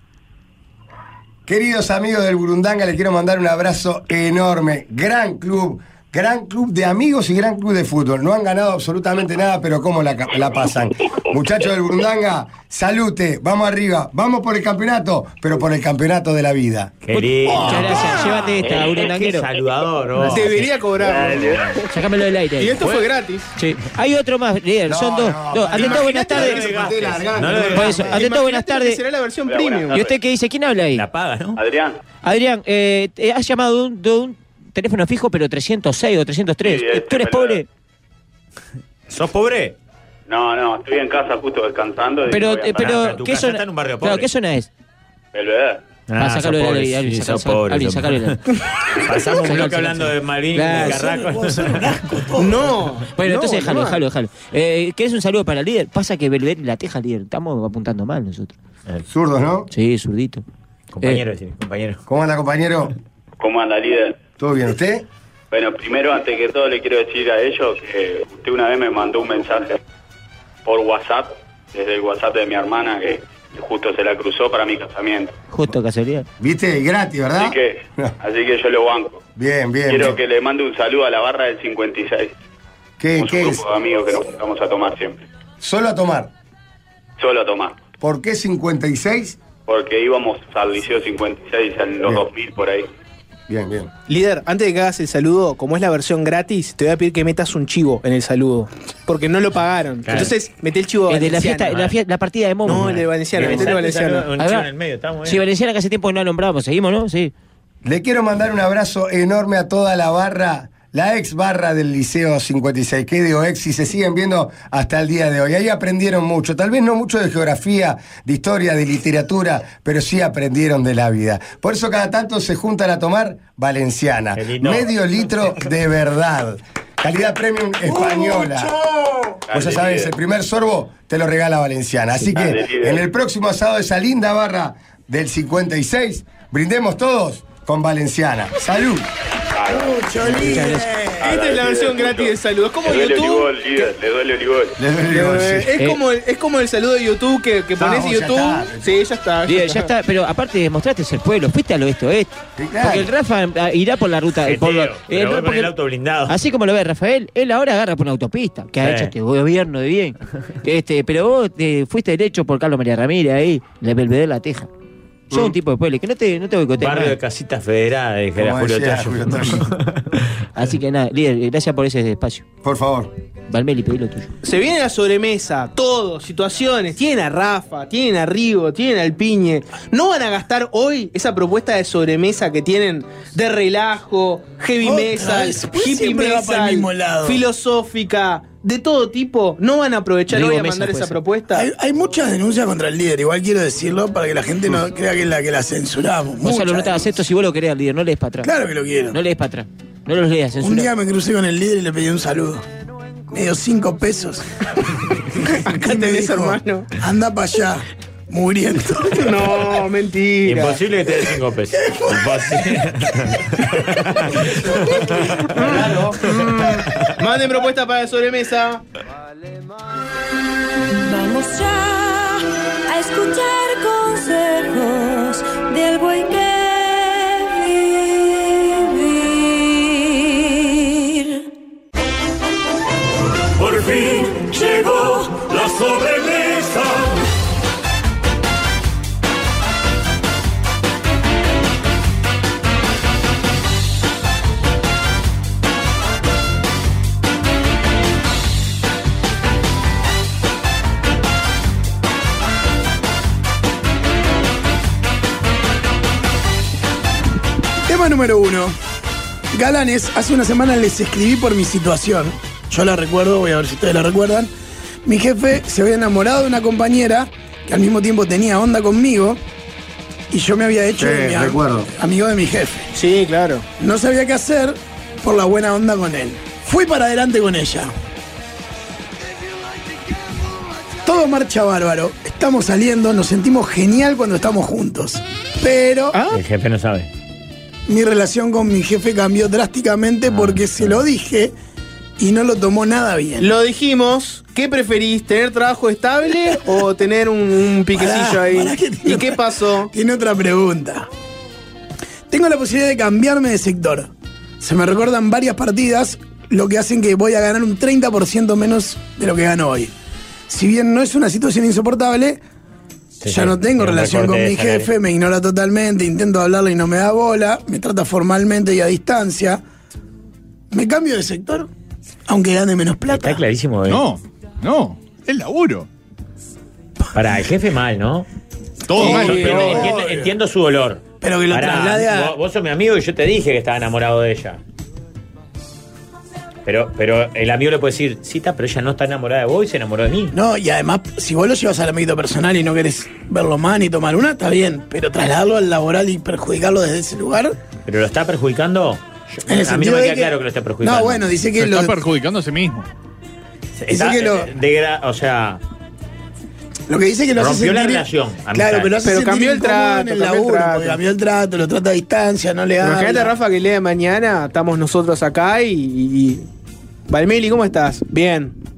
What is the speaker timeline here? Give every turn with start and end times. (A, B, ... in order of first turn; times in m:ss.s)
0:01.5-0:16.9 A
0:17.0-0:21.8 B
0:17.1-0:19.5 C
0:18.0-0:18.4 D
0:20.2-0:21.8 D
0:21.9-0:22.8 C
0:22.6-0:23.5 D
0:22.8-0:23.1 B
0:23.6-0:26.6 C
0:24.9-0:28.2 A
0:25.8-0:28.2 B
0:25.8-0:26.6 D
0:27.6-0:29.0 C
0:27.8-0:30.0 D
0:29.5-0:30.1 E
0:29.9-0:31.0 C
0:30.9-0:31.6 B
0:31.6-0:32.0 E
0:32.2-0:37.6 C
0:36.6-0:37.6 E
0:39.1-0:39.8 B
0:40.3-0:43.0 E
0:42.3-0:44.7 C
0:42.8-0:44.3 B
0:45.3-0:45.8 E
0:46.1-0:52.0 B
0:46.2-0:48.4 C
0:49.4-0:51.0 C
0:50.6-0:52.8 F
0:52.4-0:54.0 D
0:53.2-0:58.5 C
0:59.1-0:59.7 A
0:59.7-1:00.4 C
1:00.9-1:02.0 B
1:02.1-1:02.9 A
1:03.4-1:04.2 E
1:04.4-1:05.0 A
1:05.5-1:09.8 E
1:10.6-1:15.3 E
1:15.5-1:16.3 C
1:16.4-1:18.1 A
1:17.4-1:19.2 E
1:19.4-1:20.2 A
1:19.9-1:22.3 E
1:23.0-1:23.6 A
1:23.2-1:25.2 E
1:25.6-1:26.3 A
1:27.2-1:27.8 E
1:28.0-1:29.4 A
1:29.7-1:32.9 E
1:33.5-1:33.9 A
1:34.1-1:41.8 D
1:40.0-1:40.3 B
1:41.1-1:43.0 C
1:42.6-1:44.3 D
1:42.7-1:45.4 B
1:44.4-1:44.7 C
1:45.2-1:47.3 C
1:47.8-2:08.7 A
2:04.4-2:04.9 B
2:07.8-2:09.4 F
2:09.5-2:10.1 E
2:09.5-2:19.1 A
2:12.4-2:13.0 E
2:19.6-2:20.0 E
2:19.7-2:21.4 F
2:20.3-2:20.9 C
2:21.2-2:22.3 E
2:21.2-2:23.5 D
2:22.8-2:24.8 E
2:24.8-2:25.7 A
2:25.1-2:29.9 D
2:27.8-2:29.0 A
2:29.4-2:35.7 C
2:32.6-2:33.1 A
2:34.4-2:36.4 B
2:36.3-2:44.7 C
2:38.8-2:39.1 B
2:45.3-2:47.2 C
2:46.8-2:50.2 B
2:48.4-2:49.7 A
2:50.6-2:52.4 C
2:52.6-2:53.1 A
2:53.5-2:54.3 C
2:54.4-3:11.7 D
3:04.8-3:07.4 F
3:10.3-3:11.2 C
3:11.5-3:17.1 F
3:16.4-3:18.5 C
3:18.4-3:19.2 F
3:19.1-3:20.9 C
3:20.6-3:22.6 F
3:23.3-3:24.5 F
3:25.4-3:29.4 F
3:25.7-3:26.9 D
3:29.2-3:30.8 D
3:30.4-3:35.6 B
3:31.8-3:32.8 F
3:34.3-3:36.4 A
3:35.6-3:38.8 D
3:36.3-3:37.2 B
3:40.9-3:51.4 G
3:53.6-3:57.3 H
4:17.8-4:18.7 F
4:19.5-4:24.5 F
4:25.0-4:29.4 F
4:30.3-4:32.9 F
4:31.0-4:31.9 A
4:32.9-4:33.6 D
4:33.8-4:37.9 F
4:41.0-4:46.2 F
4:46.1-4:46.4 D
4:46.3-4:47.1 B
4:47.9-4:51.5 F
4:50.2-4:51.0 B
4:52.2-4:53.5 F
4:53.4-4:59.9 D
4:57.9-5:01.1 F
5:02.3-5:09.9 F
5:10.5-5:12.4 F
5:13.2-5:14.9 B
5:13.3-5:19.6 F
5:20.7-5:21.7 F
5:22.3-5:23.4 F
5:23.1-5:24.0 B
5:23.9-5:25.9 I
5:27.1-5:28.3 B
5:28.9-5:29.9 I
5:28.9-5:30.2 F
5:28.9-5:34.6 B
5:29.0-5:29.6 D
5:31.2-5:32.4 F
5:36.6-5:40.3 B
5:40.3-5:47.6 F
5:47.8-5:51.2 B
5:49.5-5:52.0 F
5:51.6-5:52.9 I
5:53.8-5:55.6 B
5:53.9-5:54.5 F
5:56.9-6:03.3 F
5:57.3-5:58.9 B
5:59.0-6:01.0 D
6:02.8-6:06.4 D
6:07.1-6:08.6 D